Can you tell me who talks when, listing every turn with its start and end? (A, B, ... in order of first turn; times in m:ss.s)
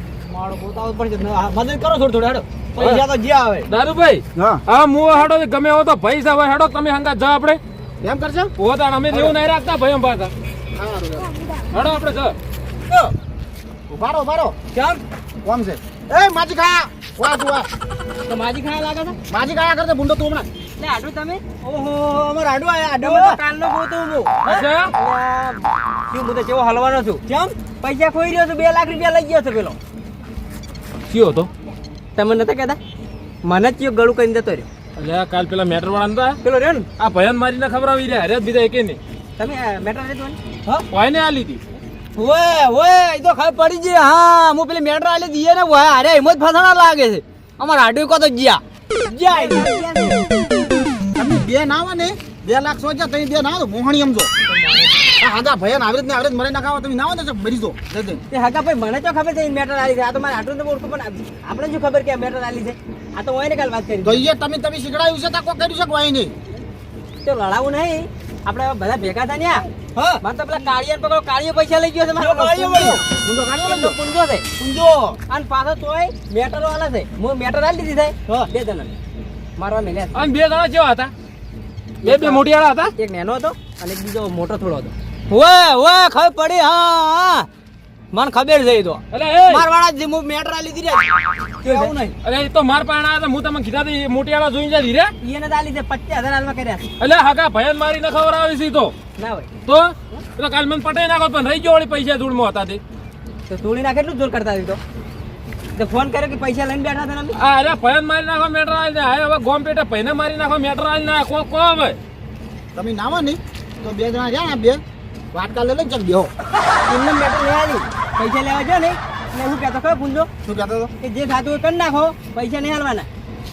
0:00.3-0:03.7 A
0:03.7-0:07.6 B
0:04.4-0:04.6 C
0:08.0-0:08.5 C
0:08.6-0:10.3 B
0:10.7-0:11.3 C
0:11.7-0:12.4 B
0:13.9-0:14.6 C
0:14.7-0:15.0 A
0:15.4-0:17.7 C
0:18.3-0:19.2 A
0:19.3-0:20.5 C
0:20.8-0:29.8 A
0:24.5-0:24.9 B
0:31.1-0:31.5 B
0:32.2-0:32.8 A
0:33.5-0:34.7 A
0:35.0-0:36.4 B
0:36.4-0:36.9 A
0:37.0-0:39.0 B
0:39.4-0:40.8 A
0:40.9-0:41.6 B
0:42.2-0:50.3 A
0:51.2-0:54.3 C
0:54.5-0:55.0 A
0:55.2-0:58.2 C
0:58.3-1:04.2 A
1:04.0-1:06.3 C
1:07.2-1:13.0 A
1:12.2-1:14.0 C
1:13.6-1:19.0 A
1:19.6-1:20.2 A
1:20.2-1:21.1 B
1:22.0-1:22.4 A
1:22.0-1:22.9 B
1:23.0-1:27.5 A
1:28.1-1:32.2 A
1:29.1-1:29.7 B
1:31.6-1:35.1 B
1:35.2-1:36.9 A
1:37.0-1:38.9 B
1:39.2-1:39.5 A
1:39.7-1:42.8 B
1:43.5-1:44.8 A
1:45.8-1:47.4 A
1:47.4-1:52.0 B
1:52.8-1:54.8 C
1:55.3-1:56.3 C
1:56.8-2:00.3 A
2:00.4-2:00.9 C
2:01.0-2:03.1 A